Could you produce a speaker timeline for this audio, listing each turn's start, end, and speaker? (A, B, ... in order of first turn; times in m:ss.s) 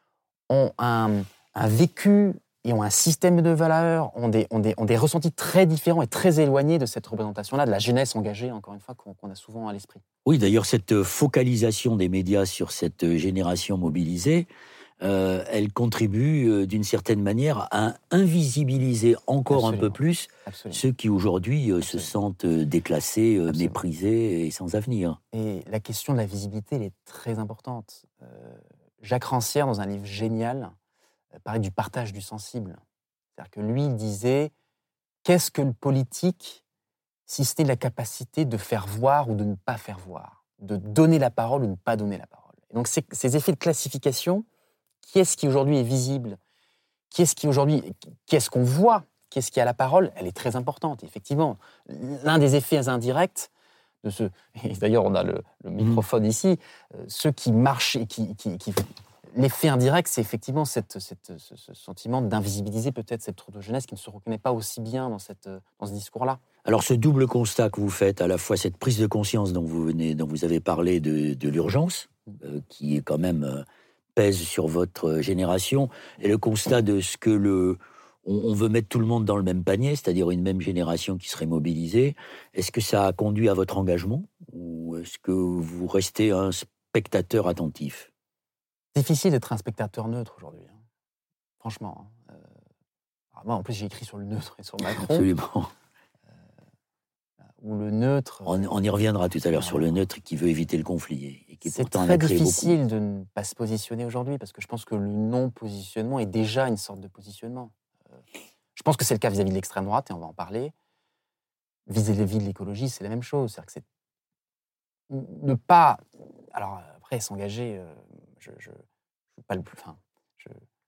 0:00.5-0:10.0 A
0:10.2-0:14.5 B
0:15.0-0:25.2 B
0:19.5-0:20.8 A
0:21.8-0:22.1 A
0:23.5-0:23.8 A
0:25.3-0:30.7 A
0:31.4-0:32.8 A
0:33.4-0:34.5 A
0:35.2-0:36.6 A
0:37.3-0:44.4 A
0:45.0-0:46.4 A
0:47.1-0:53.5 A
0:54.0-1:06.4 A
1:06.6-1:28.1 B
1:28.9-1:30.8 A
1:31.6-1:32.4 A
1:33.3-1:35.3 A
1:34.9-1:35.7 B
1:37.6-1:38.5 A
1:38.4-1:42.7 B
1:39.6-1:39.9 A
1:41.6-1:47.7 A
1:48.7-1:50.7 A
1:51.9-1:53.8 A
1:55.1-1:58.8 A
1:59.4-2:00.6 A